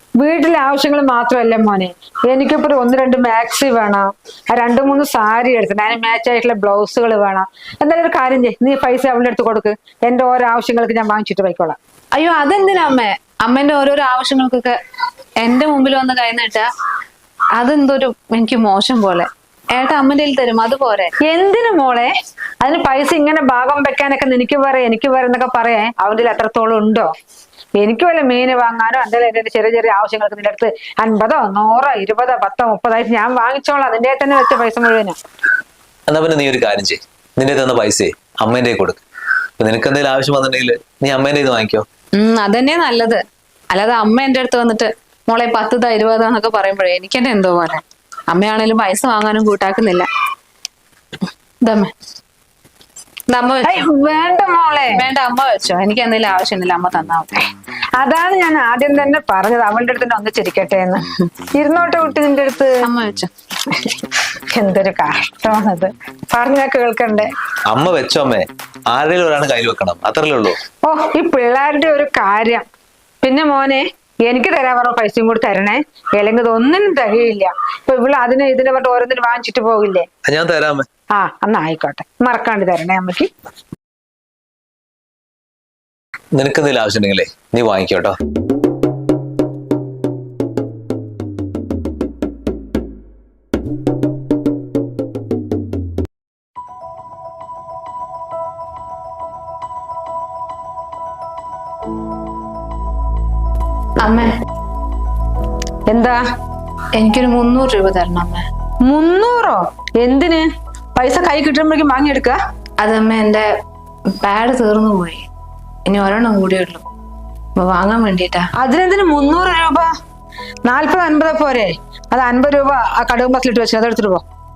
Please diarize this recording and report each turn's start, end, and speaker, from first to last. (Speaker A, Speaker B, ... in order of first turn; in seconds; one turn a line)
Speaker A: 0.2-11.8
Speaker B: 12.1-14.7
Speaker B: 15.4-16.7
Speaker B: 17.6-21.1
Speaker A: 21.2-27.1
Speaker A: 27.8-35.2
Speaker C: 36.1-39.0
Speaker C: 39.6-41.8
Speaker B: 42.1-50.1
Speaker B: 51.6-51.9
Speaker B: 53.3-53.9
Speaker A: 53.6-55.1
Speaker B: 54.9-57.5
Speaker A: 58.0-62.8
Speaker B: 62.8-63.3
Speaker A: 63.7-67.3
Speaker C: 67.7-70.6
Speaker A: 70.8-72.6
Speaker A: 73.2-80.0
Speaker C: 80.2-80.8
Speaker A: 81.1-83.3
Speaker C: 86.3-88.1
Speaker B: 104.0-104.3
Speaker A: 105.9-106.2
Speaker B: 106.9-108.4
Speaker A: 108.9-112.4
Speaker B: 112.8-113.5
Speaker B: 114.2-115.2
Speaker B: 115.8-116.8
Speaker B: 117.6-118.5
Speaker A: 118.6-119.9
Speaker A: 120.7-124.2